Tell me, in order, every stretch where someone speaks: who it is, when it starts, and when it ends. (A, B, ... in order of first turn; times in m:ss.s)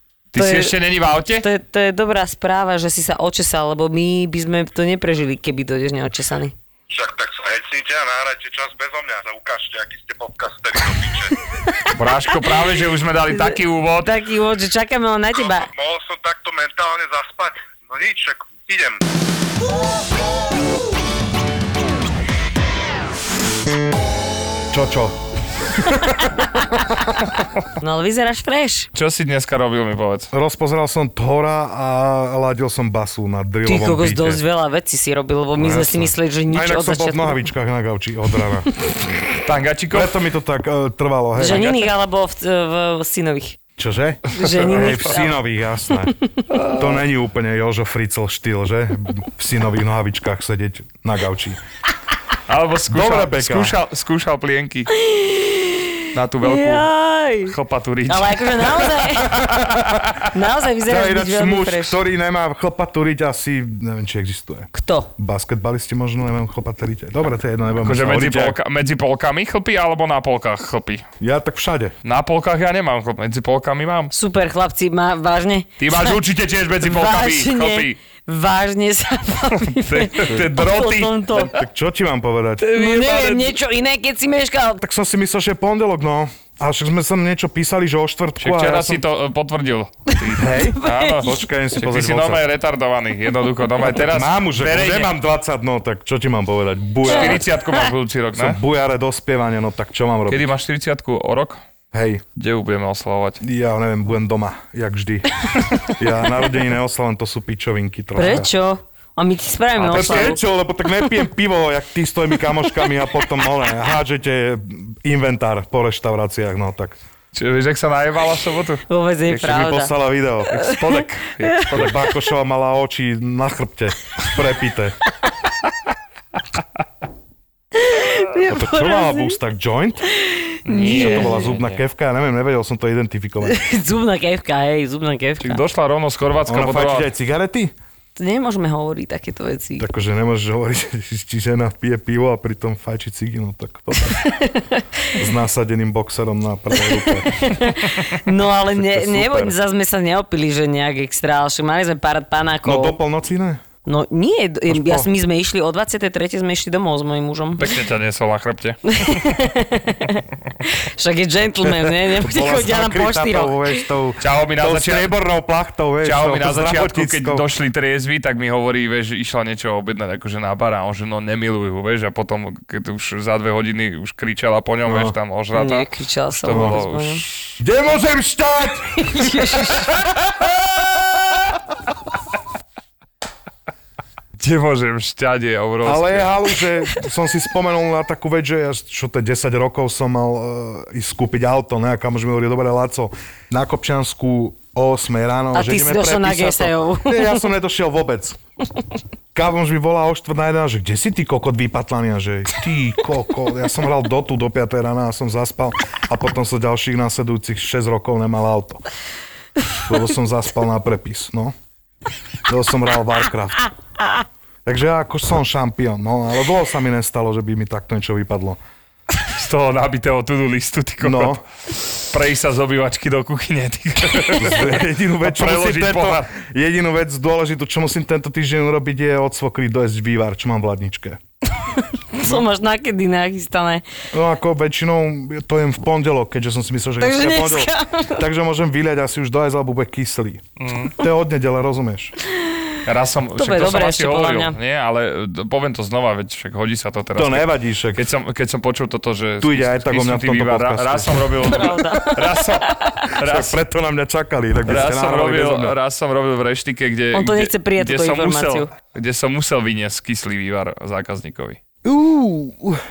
0:00.3-0:01.5 A
0:00.3-0:00.7 B
0:01.4-0:06.5 B
0:06.9-0:11.3 C
0:11.6-0:12.7 B
0:11.9-0:14.1 A
0:13.3-0:15.7 B
0:15.4-0:19.0 C
0:24.7-0:25.1 D
0:27.8-0:28.9 B
0:28.9-0:30.3 A
0:30.3-0:34.4 D
0:33.6-0:37.5 B
0:35.6-0:38.7 D
0:39.3-0:40.2 A
0:39.9-0:41.7 D
0:41.4-0:43.6 B
0:41.4-0:41.9 A
0:43.8-0:46.1 D
0:44.3-0:45.4 B
0:44.5-0:45.1 A
0:46.5-0:47.0 A
0:46.7-0:51.6 D
0:52.5-0:54.9 A
0:52.9-0:53.7 D
0:54.9-0:57.5 B
0:56.1-0:56.9 A
0:57.5-1:00.2 A
0:58.1-0:59.4 B
0:59.5-0:59.8 D
1:00.3-1:02.0 B
1:00.8-1:08.6 D
1:04.7-1:05.1 B
1:07.8-1:11.0 A
1:11.2-1:11.9 D
1:12.0-1:14.1 A
1:14.1-1:16.2 B
1:15.8-1:18.0 A
1:16.8-1:21.5 B
1:19.6-1:21.5 A
1:21.3-1:22.8 D
1:22.7-1:23.6 A
1:22.7-1:24.8 B
1:24.8-1:29.0 D
1:28.4-1:35.1 A
1:30.1-1:31.3 B
1:30.4-1:32.4 D
1:33.8-1:37.4 D
1:37.0-1:38.6 A
1:37.1-1:37.8 B
1:38.3-1:40.5 D
1:40.3-1:41.6 A
1:41.9-1:42.2 D
1:42.4-1:43.4 A
1:43.4-1:48.5 D
1:48.2-1:50.4 B
1:49.8-1:57.0 D
1:49.8-1:50.3 A
1:57.3-1:58.8 A
1:58.9-1:59.9 B
1:59.3-2:00.6 D
2:00.5-2:02.0 A
2:00.6-2:01.7 B
2:01.7-2:05.0 D
2:07.8-2:09.4 B
2:08.4-2:10.1 D
2:10.2-2:11.5 B
2:10.6-2:11.8 A
2:10.7-2:13.6 D
2:13.4-2:15.6 B
2:15.4-2:17.1 A
2:16.5-2:17.7 D
2:18.2-2:19.9 B
2:19.8-2:24.2 D
2:24.1-2:25.2 B
2:25.2-2:27.6 D
2:26.8-2:33.0 B
2:28.7-2:29.5 D
2:32.6-2:33.6 D
2:33.8-2:37.7 B
2:34.7-2:35.1 D
2:37.6-2:39.2 A
2:38.9-2:43.8 B
2:41.6-2:47.4 D
2:44.2-2:45.1 A
2:46.0-2:57.6 A
2:54.8-2:55.1 D
2:55.5-2:57.2 B
2:56.5-2:56.8 D
2:57.6-3:01.0 D
2:59.0-2:59.9 B
3:04.4-3:06.3 A
3:05.8-3:18.4 D
3:15.5-3:17.4 B
3:19.3-3:28.8 D
3:29.8-3:31.5 D
3:32.4-3:33.7 D
3:34.6-3:38.6 D
3:39.3-3:41.4 A
3:41.0-3:41.4 D
3:42.1-3:46.3 A
3:44.3-3:51.2 D
3:51.6-3:53.8 B
3:54.1-4:00.4 D
3:57.0-3:58.2 B
4:00.6-4:00.9 A
4:00.9-4:02.1 D
4:02.3-4:02.8 B
4:02.8-4:13.6 A
4:03.4-4:04.6 B
4:07.1-4:08.0 D
4:09.4-4:11.7 D
4:11.4-4:13.1 B
4:13.2-4:15.8 D
4:14.7-4:21.6 A
4:17.1-4:18.7 B
4:21.8-4:22.8 D